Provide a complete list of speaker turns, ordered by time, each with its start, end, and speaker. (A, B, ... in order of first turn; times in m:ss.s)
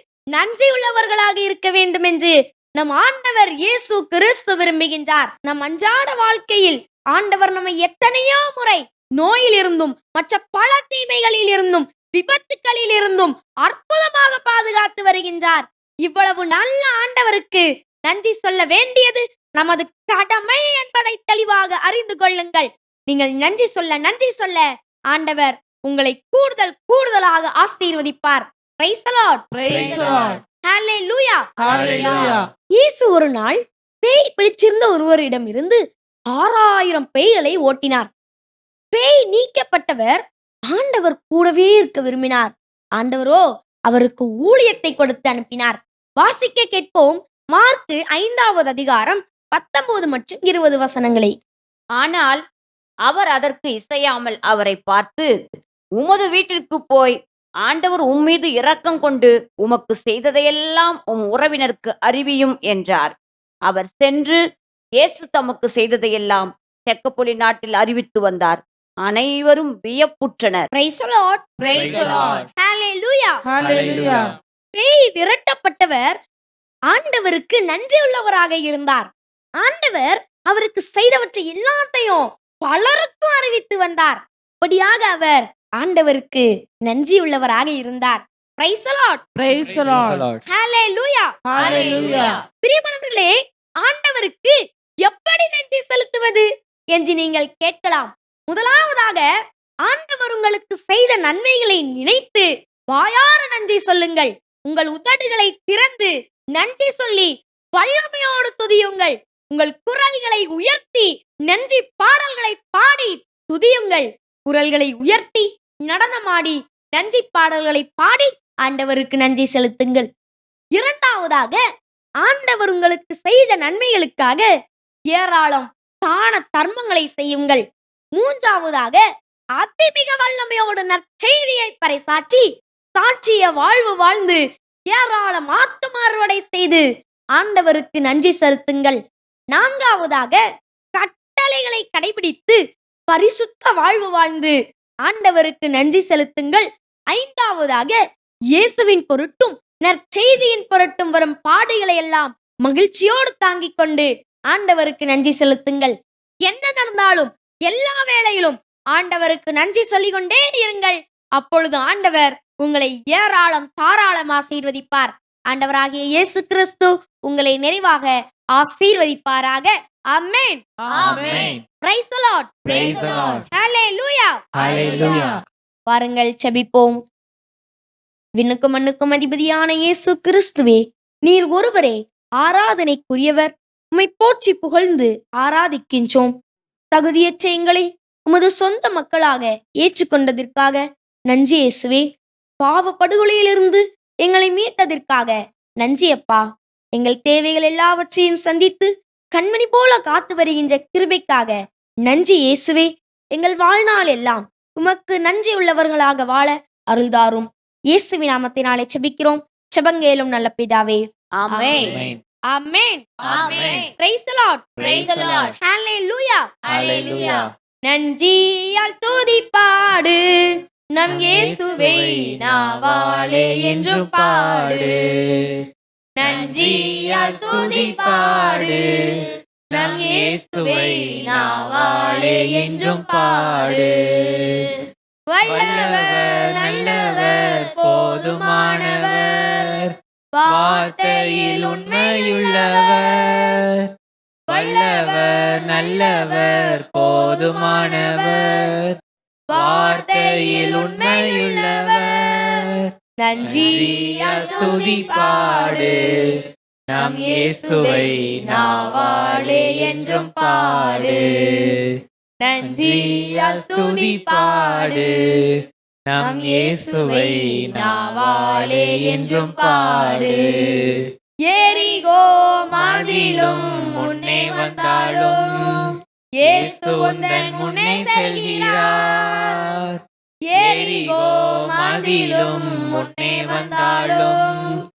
0:00.3-0:35.8 A
0:29.5-0:30.4 B
0:29.7-0:30.2 C
0:31.6-0:32.4 B
0:31.7-0:32.4 C
0:36.3-0:38.1 A
0:38.9-0:40.2 A
0:40.7-0:51.3 A
0:52.0-0:52.4 D
0:53.1-0:55.3 D
0:56.0-1:03.1 D
1:03.6-1:04.4 D
1:05.0-1:10.7 D
1:10.7-1:13.4 A
1:11.6-1:12.4 B
1:11.7-1:12.5 C
1:13.5-1:14.3 B
1:13.6-1:14.3 C
1:14.7-1:16.2 A
1:16.9-1:29.2 A
1:29.4-1:30.2 B
1:29.6-1:30.4 C
1:30.5-1:39.3 A
1:31.5-1:32.4 B
1:39.9-2:00.1 A
2:00.8-2:01.6 A
2:02.2-2:04.4 A
2:05.1-2:07.6 A
2:08.2-2:09.0 A
2:09.6-2:12.4 A
2:13.0-2:14.4 A
2:14.9-2:16.8 A
2:17.4-2:19.0 A
2:19.5-2:20.4 A
2:21.0-2:22.6 A
2:23.1-2:24.5 A
2:25.0-2:28.0 A
2:28.6-2:35.9 A
2:36.4-2:50.6 A
2:50.8-2:51.5 B
2:51.0-2:51.6 C
2:51.8-2:52.5 A
2:52.7-2:53.4 C
2:52.8-2:53.4 B
2:53.5-2:55.2 A
2:54.6-2:55.4 C
2:54.6-2:55.4 B
2:55.9-2:57.0 A
2:58.4-3:06.3 A
3:06.9-3:12.1 A
3:12.6-3:16.4 A
3:17.0-3:21.5 A
3:22.1-3:31.0 A
3:31.3-3:32.0 D
3:31.5-3:31.9 A
3:31.8-3:32.2 C
3:32.5-3:33.0 A
3:33.2-3:33.9 C
3:33.3-3:33.9 D
3:34.0-3:34.8 A
3:34.8-3:35.5 C
3:34.8-3:35.5 D
3:35.6-3:36.4 A
3:36.7-3:37.5 C
3:36.7-3:37.4 D
3:37.9-3:40.2 A
3:41.0-3:44.9 A
3:41.1-3:45.3 C
3:46.2-3:48.8 A
3:46.2-3:48.8 C
3:49.7-3:53.9 A
3:49.7-3:54.6 C
3:55.3-3:59.3 A
3:55.4-3:59.9 C
4:00.3-4:03.2 A
4:00.5-4:03.8 C
4:04.5-4:08.6 A
4:04.5-4:09.0 C
4:09.5-4:12.5 A
4:09.5-4:12.8 C
4:13.2-4:15.9 A
4:13.4-4:16.0 C
4:16.9-4:21.7 C
4:17.0-4:21.2 A
4:22.4-4:25.1 A
4:22.6-4:25.0 C
4:26.1-4:30.8 C
4:26.2-4:30.4 A
4:31.5-4:35.4 A
4:32.8-4:40.0 C
4:36.4-4:39.2 A
4:40.5-4:44.6 A
4:40.6-4:44.7 C